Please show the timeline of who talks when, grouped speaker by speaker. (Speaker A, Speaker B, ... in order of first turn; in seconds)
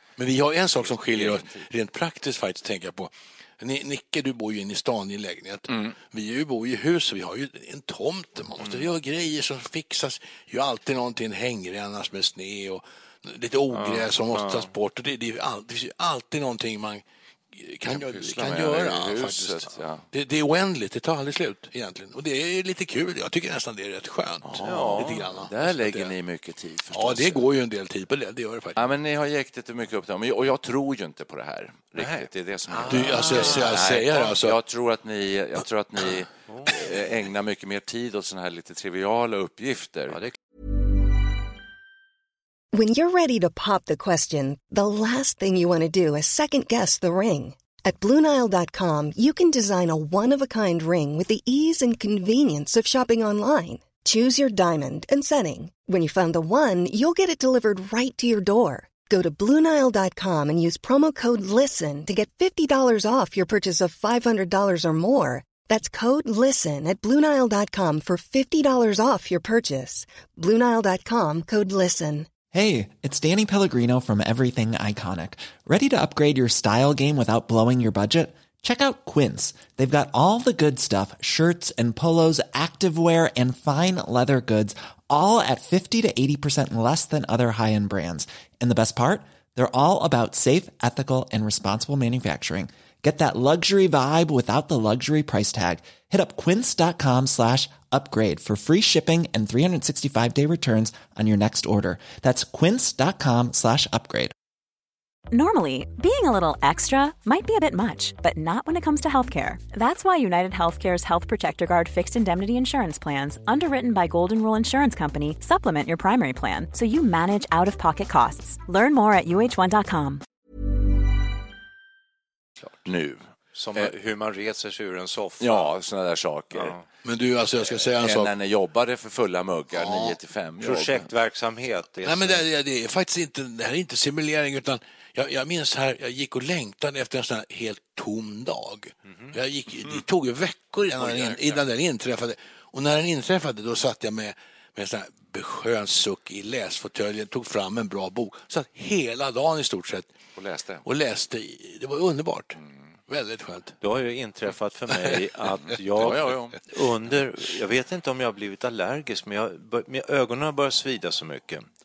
Speaker A: 0.2-26.1, 26.9-28.8, 32.9-34.6, 127.0-128.3, 129.7-130.2, 132.0-150.1, 150.8-153.8, 154.9-155.2
Speaker B: 0.8-1.7, 17.9-20.1, 24.4-27.4, 28.8-40.2, 122.8-123.9, 125.4-126.8, 127.7-131.1, 141.0-141.6, 150.4-150.9, 156.0-156.6
Speaker C: 8.6-8.9, 13.7-14.7, 24.6-25.2, 32.0-33.8, 36.5-36.8, 40.1-40.4, 123.5-125.7, 126.5-126.8, 130.6-132.4, 153.8-161.7
Speaker D: 42.7-72.3
Speaker E: 72.5-104.3
Speaker F: 105.3-120.2